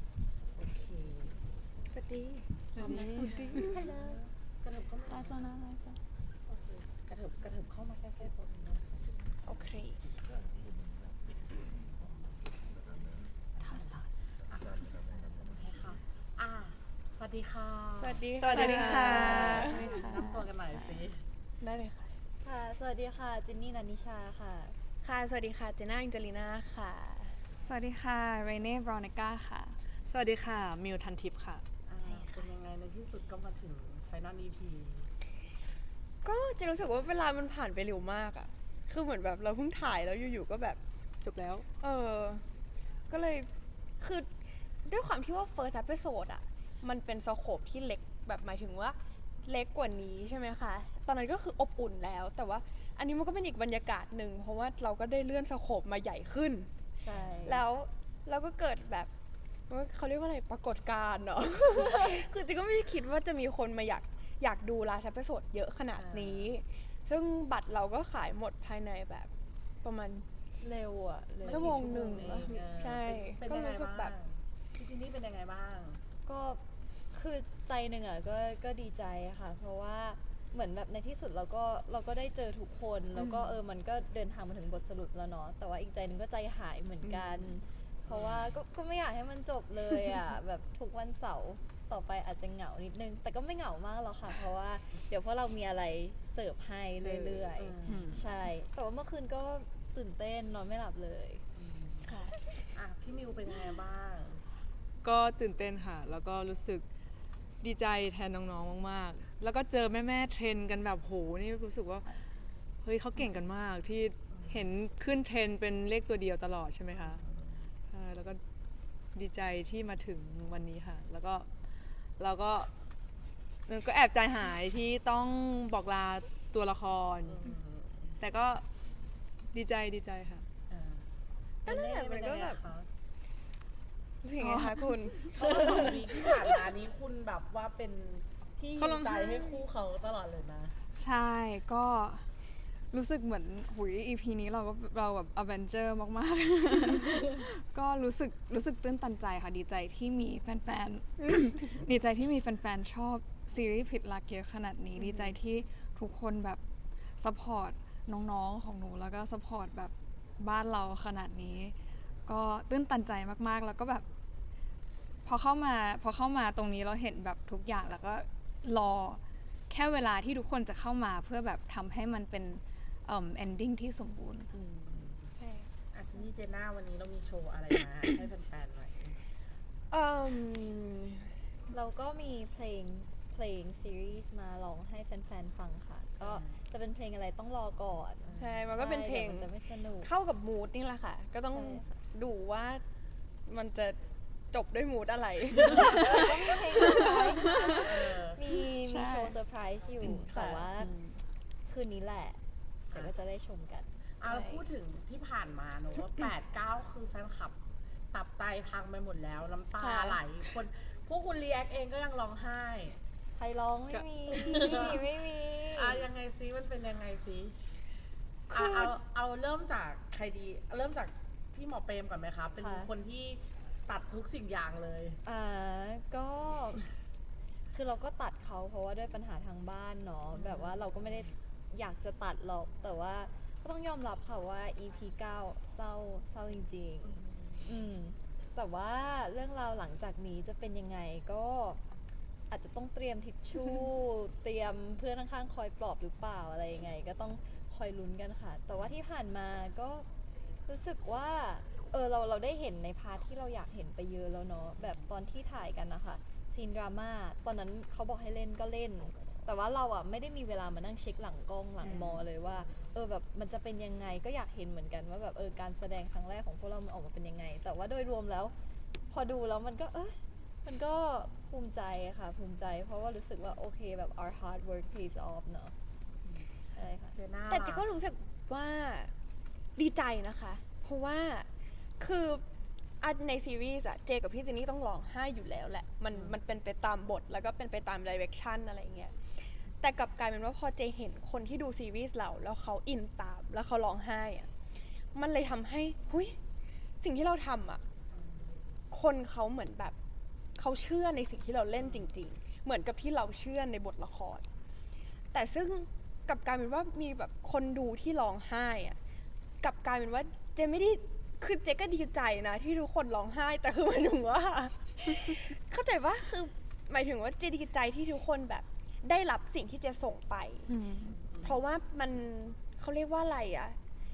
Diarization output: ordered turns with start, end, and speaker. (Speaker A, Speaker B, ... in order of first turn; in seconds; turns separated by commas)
Speaker A: 0.6-1.4, Speaker B: 1.9-2.4, Speaker A: 2.7-5.4, Speaker C: 2.8-3.8, Speaker D: 2.9-3.3, Speaker E: 3.6-4.2, Speaker C: 5.1-6.0, Speaker A: 6.5-9.0, Speaker B: 9.4-10.0, Speaker C: 13.6-14.1, Speaker A: 13.6-21.2, Speaker B: 18.0-20.1, Speaker C: 18.4-20.5, Speaker B: 21.6-22.1, Speaker E: 22.4-24.8, Speaker B: 25.0-27.3, Speaker C: 27.6-29.8, Speaker D: 30.1-31.6, Speaker A: 31.9-35.1, Speaker B: 32.0-32.4, Speaker B: 36.2-40.8, Speaker D: 41.2-41.6, Speaker B: 41.8-42.4, Speaker B: 43.1-43.5, Speaker B: 44.0-44.3, Speaker B: 44.8-56.7, Speaker E: 57.0-57.6, Speaker A: 57.1-57.5, Speaker B: 57.4-59.1, Speaker B: 59.7-69.3, Speaker E: 61.7-62.3, Speaker A: 66.0-66.5, Speaker B: 69.8-70.2, Speaker E: 70.6-72.5, Speaker A: 71.4-76.0, Speaker B: 71.4-74.1, Speaker E: 76.2-101.4, Speaker B: 83.2-83.5, Speaker B: 87.0-87.5, Speaker A: 88.1-88.5, Speaker A: 97.0-98.1, Speaker C: 97.9-98.2, Speaker A: 101.5-104.4, Speaker D: 105.0-106.8, Speaker D: 107.6-112.2, Speaker D: 112.8-117.2, Speaker A: 117.0-117.6, Speaker D: 117.9-118.4, Speaker D: 119.1-121.5, Speaker D: 122.2-122.7, Speaker D: 123.7-127.5, Speaker A: 127.2-128.1, Speaker D: 128.2-128.6, Speaker D: 129.5-130.5, Speaker A: 130.7-131.1, Speaker A: 131.6-132.9, Speaker B: 131.7-132.6, Speaker B: 134.2-136.5, Speaker C: 134.4-134.9, Speaker A: 135.3-140.8, Speaker D: 138.8-139.6, Speaker C: 140.9-142.3, Speaker C: 142.9-156.6, Speaker C: 157.2-161.7, Speaker C: 162.2-164.0, Speaker C: 165.2-174.5, Speaker A: 174.5-175.3, Speaker B: 175.4-175.7, Speaker A: 175.9-179.2, Speaker B: 179.9-181.2, Speaker E: 181.7-190.1, Speaker A: 186.2-186.6, Speaker A: 188.2-188.7, Speaker B: 188.4-189.5, Speaker B: 190.0-192.8, Speaker E: 191.5-192.0, Speaker B: 193.5-194.0, Speaker B: 194.5-197.2, Speaker E: 196.1-200.9, Speaker A: 197.8-198.4, Speaker C: 198.8-199.3, Speaker B: 200.1-200.7, Speaker E: 201.7-202.4, Speaker E: 202.9-203.9, Speaker A: 204.2-207.6, Speaker B: 204.2-204.6, Speaker A: 208.1-213.0, Speaker B: 209.8-210.2, Speaker E: 213.3-216.0, Speaker A: 214.3-215.1, Speaker A: 215.7-217.5, Speaker B: 218.5-218.9, Speaker A: 218.5-225.2, Speaker E: 222.6-222.9, Speaker E: 225.2-226.8, Speaker E: 227.7-241.8, Speaker A: 230.3-231.3, Speaker A: 237.2-237.6, Speaker E: 242.5-250.1, Speaker E: 250.7-268.5, Speaker A: 261.8-262.2, Speaker E: 269.1-275.7, Speaker E: 276.8-277.1, Speaker A: 277.1-277.8, Speaker B: 277.5-279.1, Speaker B: 279.8-282.4, Speaker B: 283.0-294.5, Speaker B: 295.1-296.4, Speaker B: 297.0-297.8, Speaker B: 298.9-299.9, Speaker B: 300.6-304.4, Speaker A: 301.8-302.1, Speaker B: 305.3-309.0, Speaker B: 309.6-320.7, Speaker C: 320.7-321.1, Speaker A: 321.3-321.6, Speaker B: 321.4-323.8